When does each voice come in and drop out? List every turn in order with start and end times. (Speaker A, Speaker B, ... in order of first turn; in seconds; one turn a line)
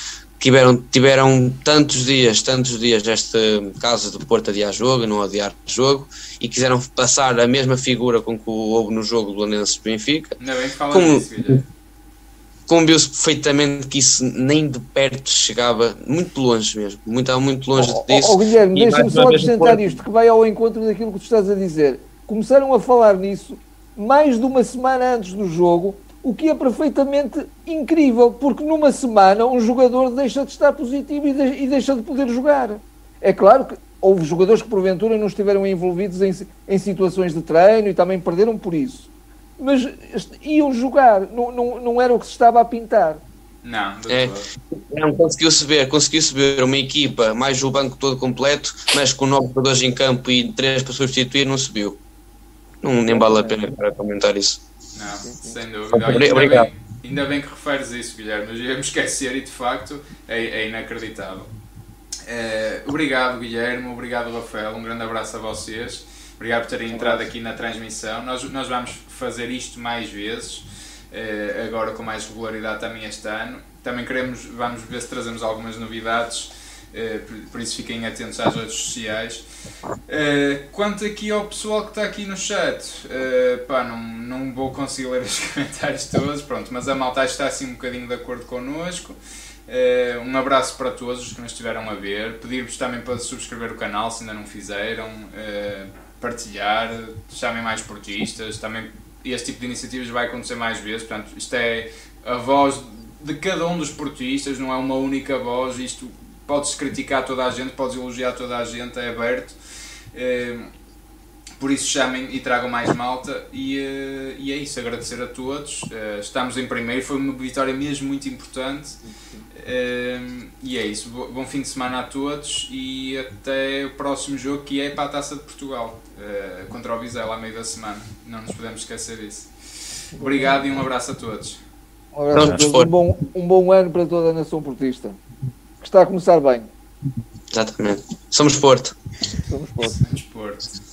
Speaker A: 0.4-10.4
Speaker B: 10.4-11.7
Speaker A: 10.9-11.6
Speaker A: 12.7-20.0
Speaker C: 17.8-43.2
Speaker B: 43.6-44.5
Speaker A: 44.1-52.0
Speaker A: 52.8-54.6
Speaker C: 53.1-53.6
Speaker B: 55.0-61.5
Speaker C: 55.2-55.6
Speaker A: 55.9-56.7
Speaker B: 62.3-79.4
Speaker C: 66.9-67.3
Speaker B: 80.1-109.6
Speaker B: 110.1-110.7
Speaker B: 111.6-119.0
Speaker C: 119.0-119.5
Speaker B: 119.5-129.5
Speaker C: 130.2-130.6
Speaker B: 130.2-131.6
Speaker C: 132.2-135.2
Speaker A: 132.3-132.9
Speaker C: 135.8-136.7
Speaker A: 137.5-138.9
Speaker C: 139.5-140.0
Speaker B: 139.8-140.7